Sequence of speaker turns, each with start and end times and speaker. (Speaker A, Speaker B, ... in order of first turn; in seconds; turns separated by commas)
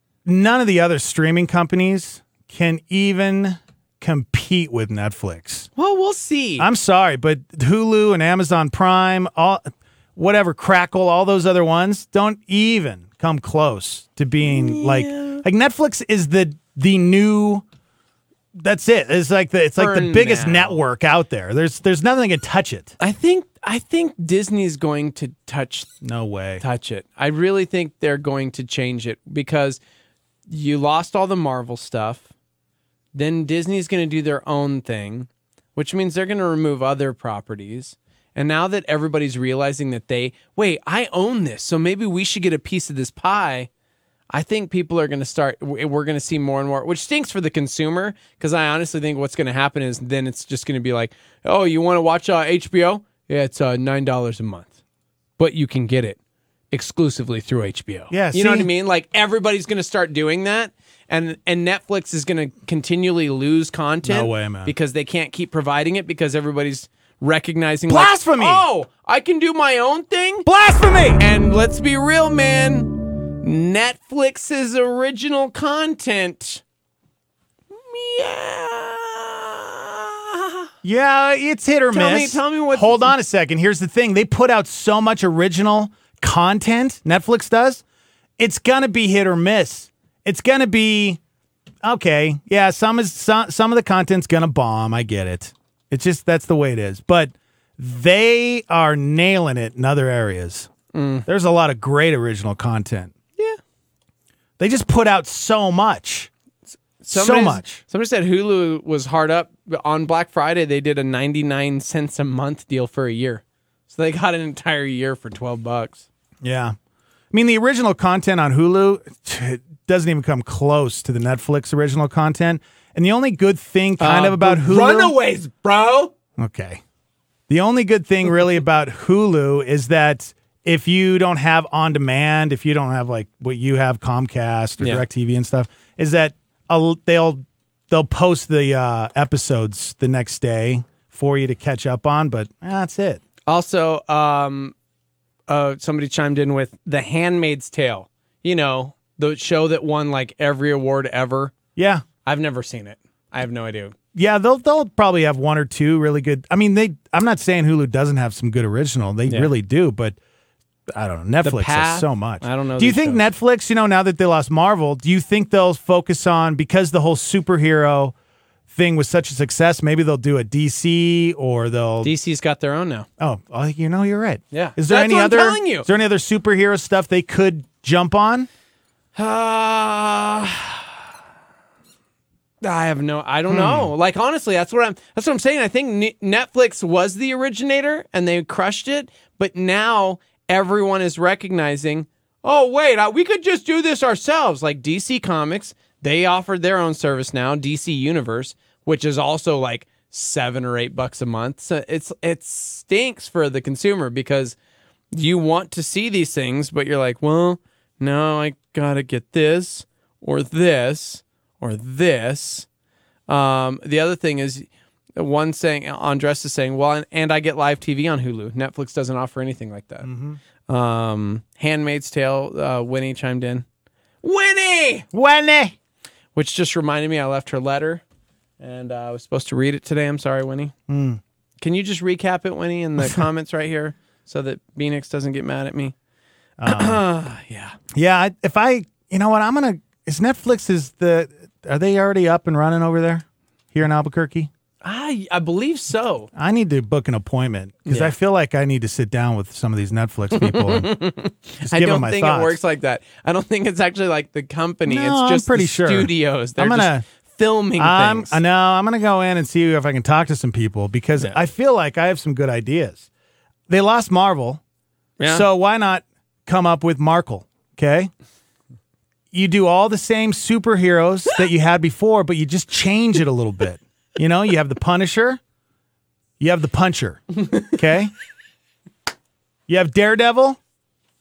Speaker A: 0.2-5.7, Speaker B: 5.8-6.7, Speaker A: 6.6-17.6, Speaker B: 14.4-15.4, Speaker A: 18.6-23.0, Speaker B: 19.8-20.8, Speaker B: 23.0-25.9, Speaker A: 26.0-26.6, Speaker B: 26.6-29.8, Speaker B: 30.5-32.3, Speaker B: 33.1-43.7, Speaker B: 44.3-54.8, Speaker B: 55.4-56.2, Speaker B: 56.7-70.5, Speaker A: 58.1-58.7, Speaker A: 64.0-64.8, Speaker A: 67.9-68.7, Speaker A: 70.5-71.2, Speaker B: 71.2-76.6, Speaker B: 77.7-80.7, Speaker A: 80.8-87.8, Speaker B: 81.9-83.1, Speaker A: 88.4-91.2, Speaker A: 91.8-100.7, Speaker B: 100.9-101.3, Speaker A: 101.3-103.1, Speaker A: 104.6-106.3, Speaker B: 107.0-116.1, Speaker A: 107.1-107.8, Speaker A: 116.4-116.8, Speaker A: 117.3-125.2, Speaker B: 124.0-126.1, Speaker A: 126.4-126.8, Speaker A: 127.5-143.2, Speaker B: 134.8-135.1, Speaker B: 143.5-144.7, Speaker B: 145.5-151.5, Speaker A: 151.8-152.1, Speaker B: 152.2-153.9, Speaker A: 154.1-160.2, Speaker B: 159.3-159.5, Speaker A: 160.9-168.2, Speaker B: 161.4-163.2, Speaker A: 168.7-172.1, Speaker B: 172.0-173.1, Speaker A: 173.2-178.5, Speaker B: 174.5-175.9, Speaker B: 179.2-180.9, Speaker B: 182.6-204.6, Speaker A: 183.5-183.9, Speaker B: 205.1-212.7, Speaker B: 213.3-220.1, Speaker A: 220.0-220.4, Speaker B: 220.7-223.7, Speaker B: 224.2-225.1, Speaker A: 225.1-225.8, Speaker B: 226.3-228.0, Speaker B: 228.6-230.7, Speaker A: 230.9-231.2, Speaker B: 231.6-235.9, Speaker A: 236.6-237.0, Speaker B: 236.7-237.8, Speaker A: 237.9-244.5, Speaker B: 244.8-246.3, Speaker A: 246.3-250.9, Speaker B: 247.9-248.1, Speaker B: 250.3-258.4, Speaker A: 251.6-252.6, Speaker A: 254.9-257.0, Speaker A: 257.8-263.1, Speaker A: 263.7-264.6, Speaker B: 265.2-265.4, Speaker A: 265.3-268.1, Speaker A: 269.3-275.4, Speaker A: 276.4-278.1, Speaker A: 279.7-280.6